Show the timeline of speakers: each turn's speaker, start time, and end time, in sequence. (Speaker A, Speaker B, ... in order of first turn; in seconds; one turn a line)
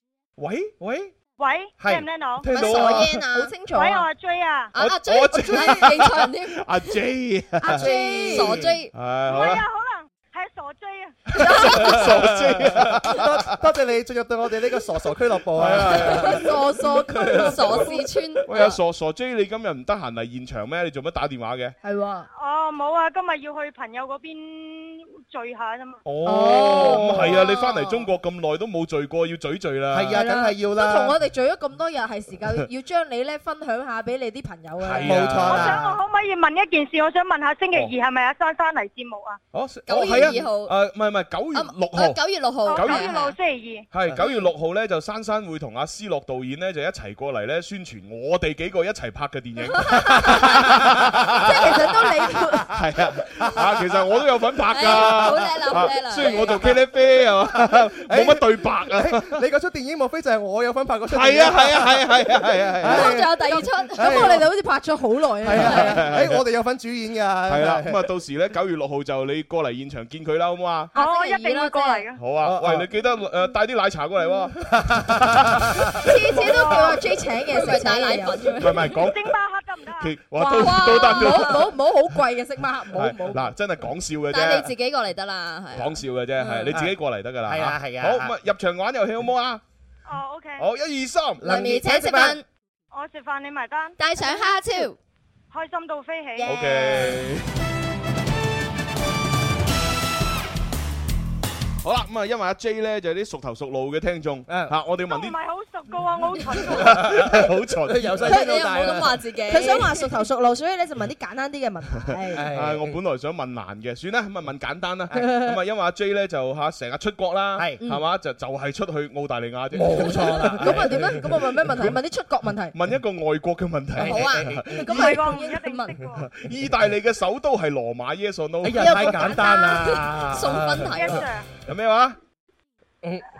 Speaker A: 0.4-1.1
Speaker B: 1.4-2.5
Speaker A: 1.8-3.2
Speaker C: 2.4-3.6
Speaker D: 2.6-4.1
Speaker B: 3.6-4.7
Speaker C: 4.7-6.6
Speaker A: 4.8-9.6
Speaker D: 7.6-8.7
Speaker C: 7.7-8.9
Speaker B: 9.3-11.2
Speaker A: 11.3-13.4
Speaker D: 11.3-12.1
Speaker E: 12.8-16.4
Speaker A: 15.5-21.8
Speaker D: 15.9-18.1
Speaker C: 17.2-18.8
Speaker D: 21.8-22.3
Speaker B: 22.4-26.0
Speaker A: 26.0-30.2
Speaker D: 26.2-27.8
Speaker E: 26.6-27.4
Speaker E: 29.9-31.2
Speaker D: 30.1-35.4
Speaker A: 34.8-35.8
Speaker E: 35.0-36.0
Speaker B: 35.4-39.4
Speaker A: 39.5-43.2
Speaker C: 39.9-40.7
Speaker C: 41.5-43.3
Speaker B: 42.6-43.9
Speaker A: 43.9-52.0
Speaker E: 50.5-50.9
Speaker D: 51.4-52.7
Speaker A: 52.7-59.4
Speaker E: 52.8-53.9
Speaker C: 54.7-56.8
Speaker E: 57.5-62.2
Speaker A: 61.1-63.1
Speaker E: 62.8-63.4
Speaker C: 62.8-64.4
Speaker D: 63.3-66.0
Speaker E: 63.9-64.4
Speaker E: 65.4-68.0
Speaker A: 65.6-66.4
Speaker A: 67.5-70.9
Speaker D: 70.9-72.0
Speaker B: 70.9-72.2
Speaker A: 72.2-76.8
Speaker E: 72.4-72.9
Speaker E: 74.8-75.8
Speaker D: 76.0-78.6
Speaker C: 76.3-76.8
Speaker C: 77.5-79.0
Speaker A: 78.5-79.3
Speaker B: 79.0-80.2
Speaker A: 80.0-81.7
Speaker D: 80.3-83.4
Speaker C: 80.5-81.6
Speaker A: 82.9-84.7
Speaker C: 84.3-86.7
Speaker A: 85.7-89.6
Speaker E: 86.7-86.9
Speaker E: 87.5-88.3
Speaker B: 90.1-90.7
Speaker A: 90.6-91.4
Speaker E: 91.4-92.4
Speaker C: 91.4-92.4
Speaker B: 92.9-94.0
Speaker C: 94.0-95.0
Speaker B: 95.5-96.5
Speaker C: 96.4-97.1
Speaker A: 96.4-97.5
Speaker A: 101.8-105.3
Speaker E: 104.5-104.7
Speaker B: 105.1-107.1
Speaker A: 106.6-108.4
Speaker E: 106.8-109.2
Speaker C: 108.2-110.1
Speaker D: 109.5-112.4
Speaker E: 112.3-113.0
Speaker A: 112.4-121.1
Speaker D: 115.1-115.5
Speaker D: 117.8-118.0
Speaker E: 119.7-121.4
Speaker D: 120.6-122.7
Speaker A: 122.7-125.2
Speaker E: 124.0-125.2
Speaker C: 124.0-124.5
Speaker D: 124.8-126.0
Speaker B: 124.8-126.3
Speaker A: 126.3-129.3
Speaker E: 128.6-131.2
Speaker C: 128.8-131.2
Speaker D: 128.8-129.9
Speaker B: 130.9-131.5
Speaker A: 131.1-132.2